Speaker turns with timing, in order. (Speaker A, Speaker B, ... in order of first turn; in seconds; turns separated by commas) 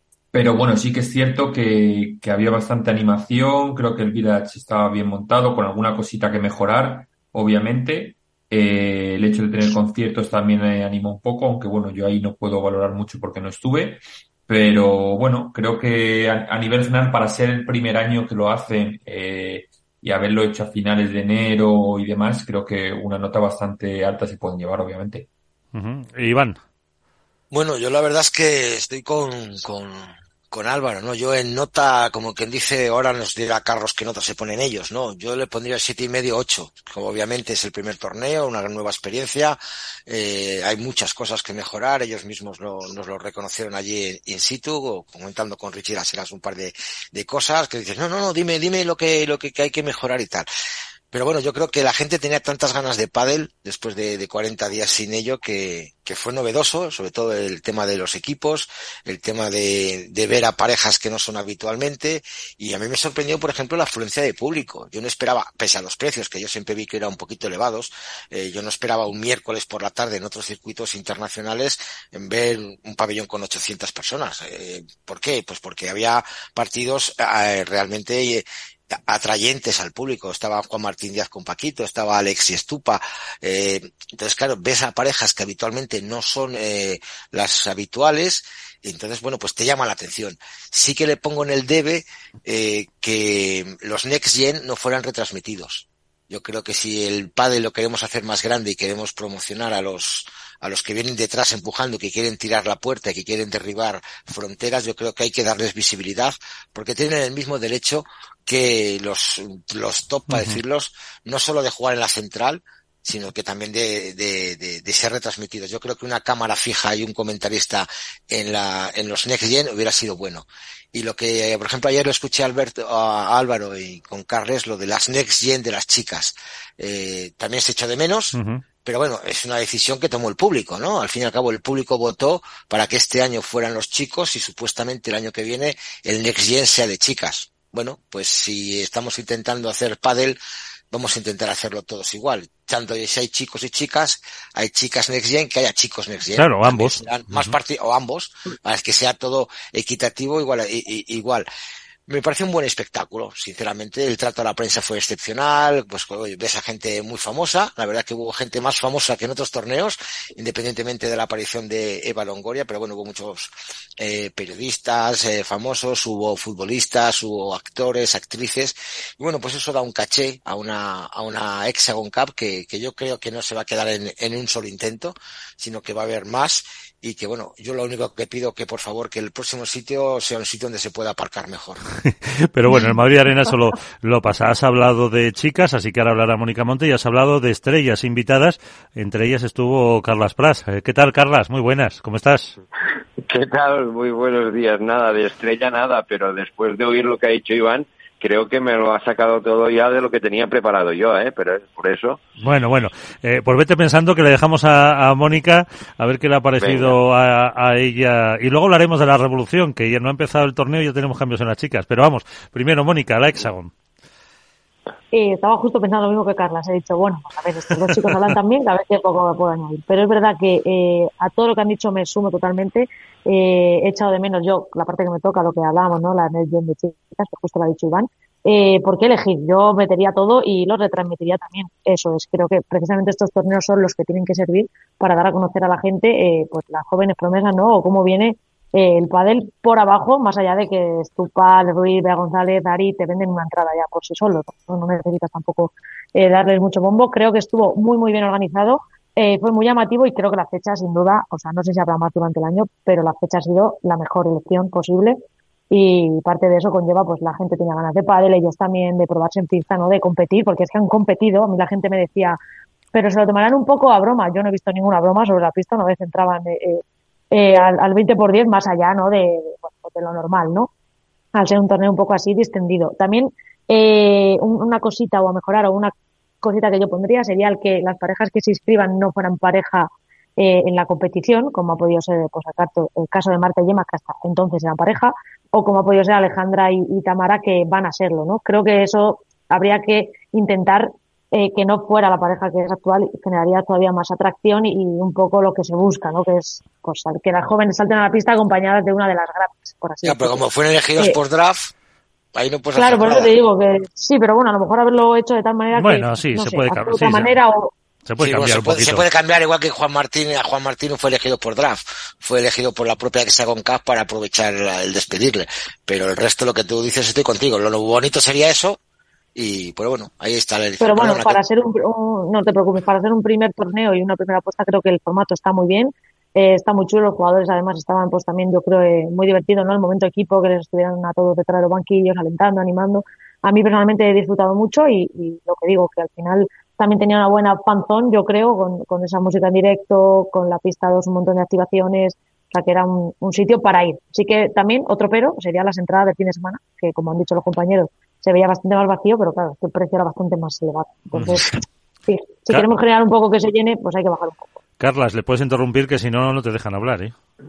Speaker A: 0.3-25.3, Speaker B: 25.7-26.6, Speaker C: 27.5-50.5, Speaker C: 51.1-140.4, Speaker B: 110.3-110.6, Speaker B: 128.3-128.6, Speaker C: 140.9-151.5, Speaker B: 146.3-147.4, Speaker C: 152.1-181.8, Speaker B: 182.1-192.5, Speaker D: 193.2-202.2, Speaker B: 202.4-213.7, Speaker D: 206.6-207.0, Speaker E: 215.1-255.2, Speaker E: 255.7-262.4, Speaker E: 262.9-270.7, Speaker E: 271.3-300.4, Speaker C: 300.0-301.7, Speaker C: 302.4-303.4, Speaker E: 302.8-307.7, Speaker B: 305.7-307.3, Speaker B: 308.1-309.1, Speaker C: 308.2-318.8, Speaker C: 319.4-321.4, Speaker E: 320.8-351.5, Speaker B: 351.1-351.4, Speaker E: 352.1-354.5, Speaker B: 354.8-357.1